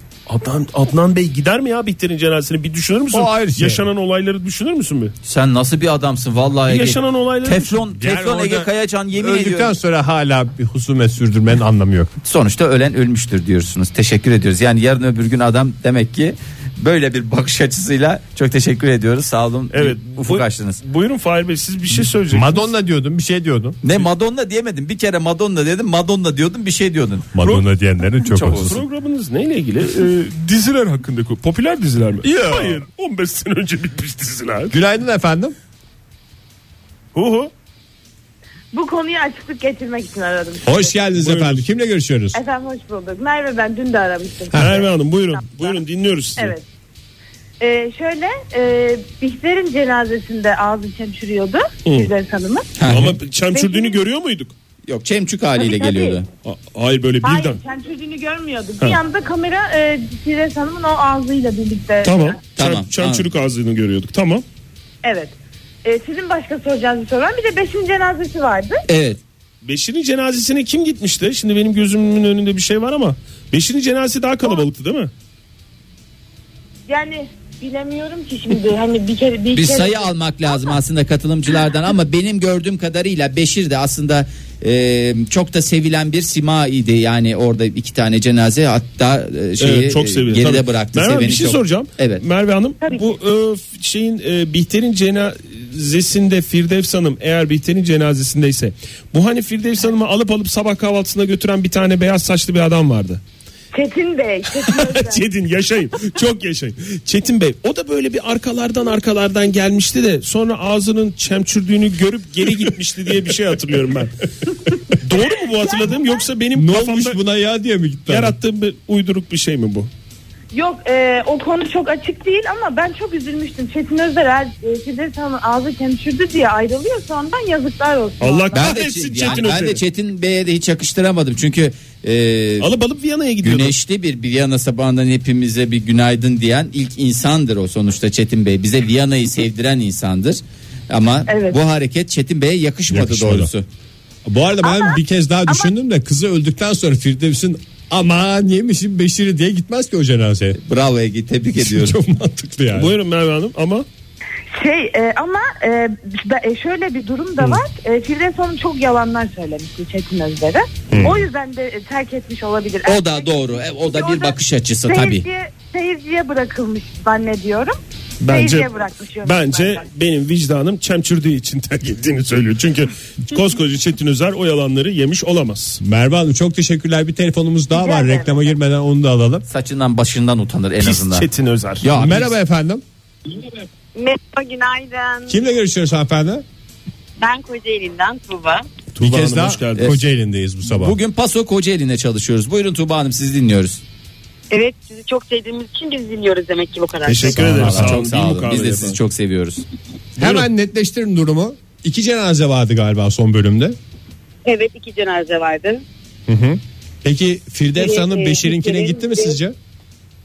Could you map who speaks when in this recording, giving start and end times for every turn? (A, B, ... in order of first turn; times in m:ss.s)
0:00.3-0:05.1 A
0:03.1-0:03.8 B
0:05.2-0:09.7 C
0:06.7-0:07.8 A
0:07.9-0:12.1 B
0:12.2-0:20.8 C
0:19.7-0:22.7 A
0:22.3-0:23.8 B
0:23.8-0:27.3 C
0:27.3-0:28.8 B
0:28.2-0:34.7 A
0:28.4-0:28.7 C
0:32.5-0:32.8 B
0:34.7-0:35.5 B
0:37.1-0:37.5 A
0:38.7-0:40.8 D
0:40.6-0:42.4 B
0:41.1-0:41.6 A
0:42.3-0:44.8 D
0:44.5-0:44.8 B
0:44.5-0:46.6 A
0:45.4-0:45.7 D
0:46.4-0:46.6 D
0:47.6-0:52.7 D
0:51.8-0:52.1 A
0:52.8-0:53.2 C
0:52.9-0:54.5 A
0:53.5-0:54.0 D
0:54.9-0:56.2 C
0:55.6-0:56.2 D
0:56.4-0:57.6 A
0:57.2-1:02.4 D
1:02.0-1:04.4 A
1:02.6-1:03.2 C
1:05.0-1:08.8 D
1:08.9-1:09.2 C
1:09.6-1:15.1 A
1:16.9-1:20.8 D
1:19.5-1:32.2 C
1:29.6-1:43.2 A
1:43.7-1:45.2 D
1:44.5-1:54.2 A
1:52.4-1:52.7 B
1:54.9-1:57.2 A
1:56.5-1:58.4 B
1:58.1-1:59.9 A
2:00.5-2:09.3 D
2:08.2-2:09.8 A
2:08.5-2:12.7 C
2:12.6-2:13.7 A
2:13.4-2:23.6 C
2:21.3-2:21.6 D
2:22.9-2:23.5 B
2:24.2-2:30.6 B
2:24.6-2:25.7 D
2:30.6-2:32.0 C
2:31.6-2:32.9 B
2:32.7-2:33.8 A
2:34.6-2:49.8 D
2:40.9-2:41.2 B
2:42.8-2:45.3 C
2:48.2-2:55.8 A
2:55.8-2:59.4 B
2:57.7-2:58.5 D
2:59.5-3:01.3 C
3:00.8-3:01.9 A
3:01.8-3:02.3 C
3:01.8-3:02.8 B
3:04.0-3:05.4 E
3:05.3-3:06.4 B
3:07.2-3:08.7 E
3:08.9-3:10.0 A
3:09.0-3:11.0 B
3:10.6-3:13.8 C
3:14.5-3:17.5 E
3:17.0-3:19.0 A
3:17.2-3:18.0 B
3:17.6-3:19.6 C
3:20.2-3:23.8 B
3:20.2-3:20.4 A
3:24.4-3:25.8 E
3:26.3-3:29.6 B
3:27.8-3:29.4 E